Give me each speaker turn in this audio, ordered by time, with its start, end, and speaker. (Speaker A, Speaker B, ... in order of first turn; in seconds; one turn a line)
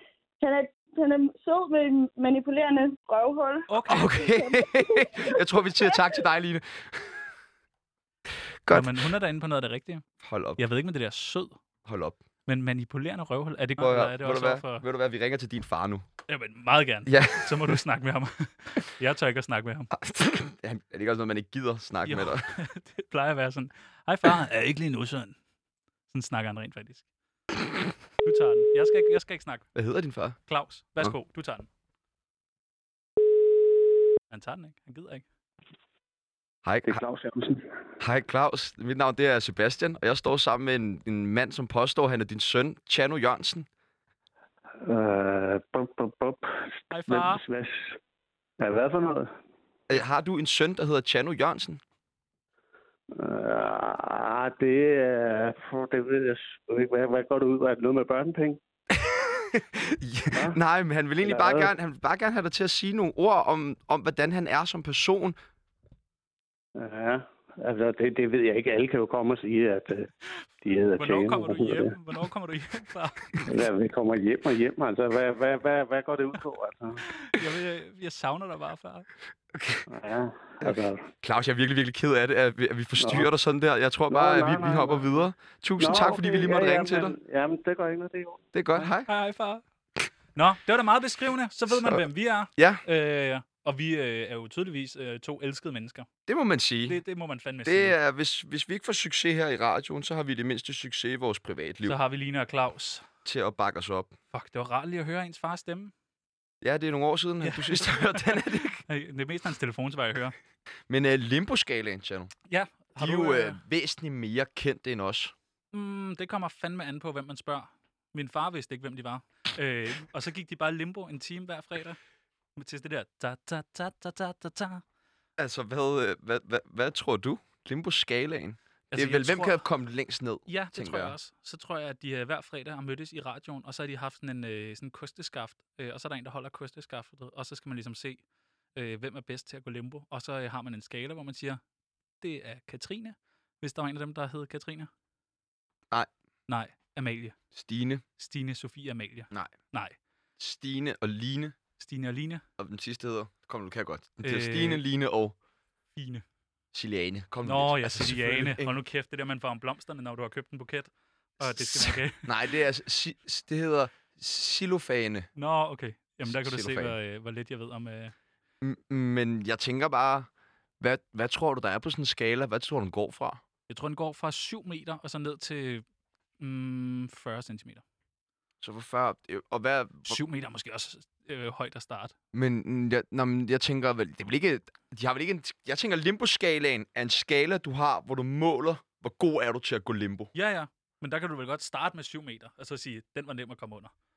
Speaker A: 0.4-5.4
Speaker B: 3.7-4.1
Speaker C: 3.9-7.3
Speaker C: 8.6-9.0
Speaker B: 8.7-10.0
Speaker C: 10.2-10.6
Speaker B: 10.6-11.6
Speaker C: 11.8-12.2
Speaker B: 12.4-14.8
Speaker C: 13.8-16.0
Speaker B: 16.3-19.9
Speaker C: 17.1-17.8
Speaker C: 19.9-22.6
Speaker B: 22.0-25.4
Speaker B: 26.1-27.0
Speaker B: 28.2-29.7
Speaker C: 29.7-30.4
Speaker B: 30.5-31.7
Speaker B: 34.3-35.2
Speaker C: 36.6-37.0
Speaker D: 36.8-37.6
Speaker C: 38.0-43.7
Speaker D: 44.8-48.0
Speaker B: 46.9-47.4
Speaker D: 48.6-49.3
Speaker C: 49.9-51.8
Speaker D: 53.1-58.6
Speaker C: 58.9-65.4
Speaker D: 60.3-60.6
Speaker D: 61.2-61.7
Speaker D: 66.8-70.1
Speaker D: 70.6-72.0
Speaker B: 71.0-73.4
Speaker D: 73.4-77.0
Speaker B: 77.2-79.1
Speaker C: 79.5-79.8
Speaker D: 79.9-81.0
Speaker C: 80.6-87.2
Speaker D: 83.0-83.3
Speaker D: 84.1-85.1
Speaker D: 85.8-88.4
Speaker C: 88.5-89.1
Speaker B: 88.7-89.6
Speaker B: 90.3-96.1
Speaker C: 91.7-92.0
Speaker C: 92.5-92.8
Speaker C: 96.3-97.0
Speaker B: 96.8-98.0
Speaker C: 97.6-102.0
Speaker B: 101.8-103.0
Speaker C: 103.2-104.1
Speaker B: 104.3-105.9
Speaker C: 106.6-108.8
Speaker B: 107.4-110.3
Speaker C: 110.9-112.3
Speaker B: 112.5-113.6
Speaker C: 113.0-115.3
Speaker B: 115.7-122.0
Speaker B: 122.5-124.8
Speaker C: 125.4-131.1
Speaker B: 128.9-129.6
Speaker B: 130.4-138.2
Speaker B: 138.7-141.6
Speaker B: 142.2-144.9
Speaker B: 146.5-147.3
Speaker C: 147.5-148.0
Speaker B: 148.2-150.0
Speaker C: 150.4-151.6
Speaker B: 151.8-152.4
Speaker C: 152.6-155.3
Speaker B: 154.2-154.8
Speaker B: 155.9-156.2
Speaker C: 156.7-158.7
Speaker B: 157.4-162.3
Speaker C: 161.5-165.3
Speaker B: 165.3-168.1
Speaker C: 166.2-166.9
Speaker C: 168.6-170.3
Speaker C: 170.8-173.4
Speaker B: 173.7-175.8
Speaker B: 176.4-177.8
Speaker C: 178.6-180.2
Speaker B: 180.1-182.1
Speaker C: 182.3-190.3
Speaker B: 190.3-193.9